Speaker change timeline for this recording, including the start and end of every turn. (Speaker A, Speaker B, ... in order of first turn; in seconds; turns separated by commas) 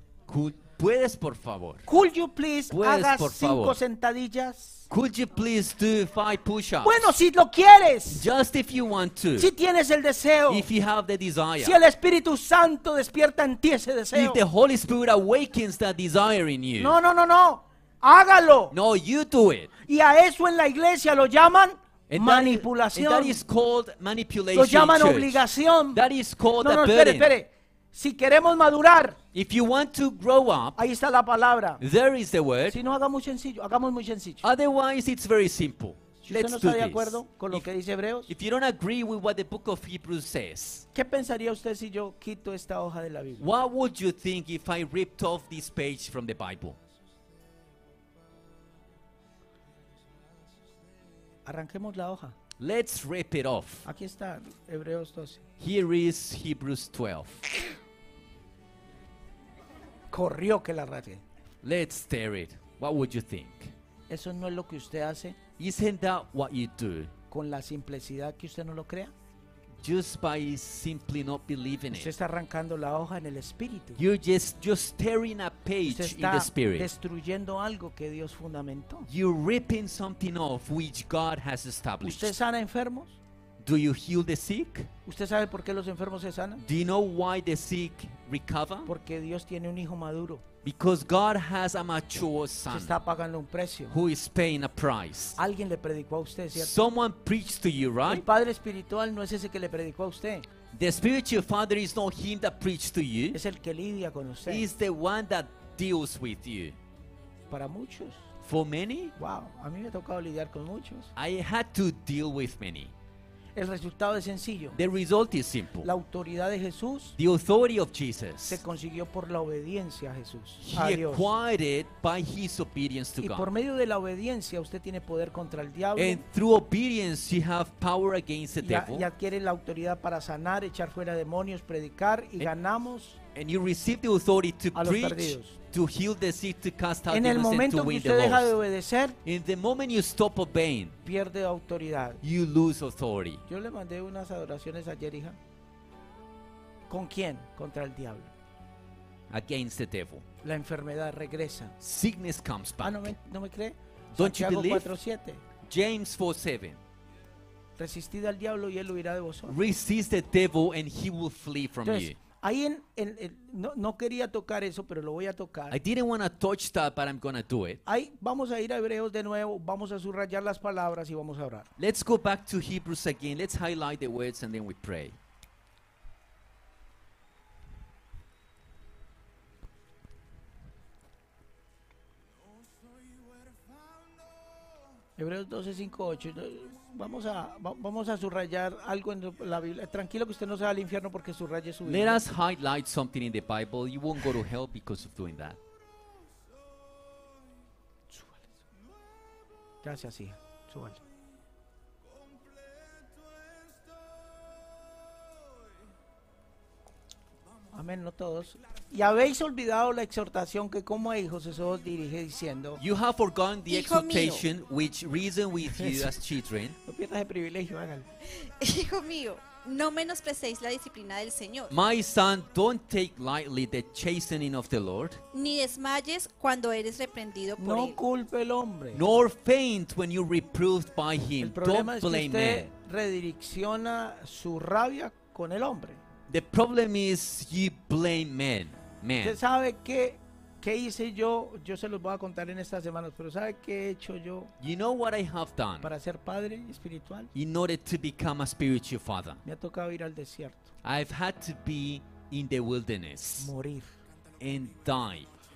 Speaker A: 0.3-1.9, Speaker B: 1.9-4.8, Speaker A: 2.7-3.8, Speaker A: 4.9-7.2, Speaker B: 6.8-8.3, Speaker A: 8.1-9.5, Speaker B: 9.4-10.7, Speaker A: 10.5-11.8, Speaker B: 11.6-14.4, Speaker A: 14.1-17.0, Speaker B: 16.8-18.7, Speaker A: 18.7-19.7, Speaker B: 19.9-23.4, Speaker A: 22.1-27.3, Speaker B: 24.5-26.0, Speaker B: 26.6-29.2, Speaker A: 29.3-30.8, Speaker B: 30.8-31.8, Speaker A: 31.8-32.8, Speaker B: 32.7-34.4, Speaker A: 34.4-37.7, Speaker B: 36.3-38.3, Speaker A: 38.3-40.9, Speaker B: 40.9-43.4, Speaker A: 43.4-46.8, Speaker B: 51.5-52.4, Speaker A: 52.6-53.9, Speaker B: 53.9-55.4, Speaker A: 55.6-57.4, Speaker B: 60.1-61.2, Speaker A: 61.6-63.7, Speaker B: 64.1-65.4, Speaker A: 65.6-67.1, Speaker B: 67.3-69.1, Speaker A: 69.8-72.1, Speaker B: 71.9-74.0, Speaker A: 74.0-76.9, Speaker B: 75.9-79.1, Speaker A: 79.1-82.3, Speaker B: 82.0-83.2, Speaker A: 83.6-84.9, Speaker B: 85.1-86.6, Speaker A: 86.6-88.9, Speaker B: 88.9-90.4, Speaker A: 90.6-92.9, Speaker B: 92.7-94.0, Speaker A: 93.9-95.4, Speaker B: 95.4-96.7, Speaker A: 96.5-98.2, Speaker B: 98.1-100.5, Speaker A: 100.7-103.4, Speaker B: 103.3-104.7, Speaker A: 104.5-106.8, Speaker B: 107.5-108.3, Speaker A: 108.4-109.2, Speaker B: 109.2-111.1, Speaker A: 111.2-112.9, Speaker B: 113.5-114.8, Speaker A: 114.8-115.9, Speaker B: 115.8-117.2, Speaker A: 117.2-118.6, Speaker B: 118.5-121.3, Speaker A: 120.6-123.5, Speaker B: 123.2-126.2, Speaker A: 126.0-129.1, Speaker B: 128.6-133.2, Speaker A: 133.3-138.5, Speaker B: 134.8-135.6, Speaker B: 137.1-139.2, Speaker A: 139.2-141.0, Speaker B: 141.1-142.2, Speaker A: 142.2-143.4, Speaker B: 143.5-145.4, Speaker B: 146.9-148.3, Speaker A: 149.3-150.2, Speaker B: 150.4-151.8, Speaker A: 151.8-153.1, Speaker B: 152.8-155.4, Speaker A: 154.2-154.9, Speaker A: 155.6-156.8, Speaker B: 157.8-159.6, Speaker A: 159.5-162.2, Speaker B: 161.8-165.8, Speaker A: 165.7-167.8, Speaker B: 167.9-171.7, Speaker A: 171.8-175.2, Speaker B: 185.2-192.2, Speaker A: 191.8-195.6, Speaker B: 198.1-198.4, Speaker B: 199.8-201.0, Speaker B: 207.7-212.8, Speaker A: 212.8-216.8, Speaker C: 213.7-214.5, Speaker B: 215.7-216.2, Speaker B: 216.8-218.1, Speaker C: 218.3-221.7, Speaker A: 221.7-225.2, Speaker C: 225.3-228.0, Speaker B: 227.6-229.0, Speaker A: 228.9-232.7, Speaker B: 231.4-236.0, Speaker A: 236.3-239.4, Speaker B: 239.2-244.5, Speaker A: 244.6-245.9, Speaker B: 245.8-247.3, Speaker A: 247.3-249.4, Speaker B: 249.4-250.7, Speaker A: 250.8-253.5, Speaker B: 253.4-254.0, Speaker A: 254.4-255.3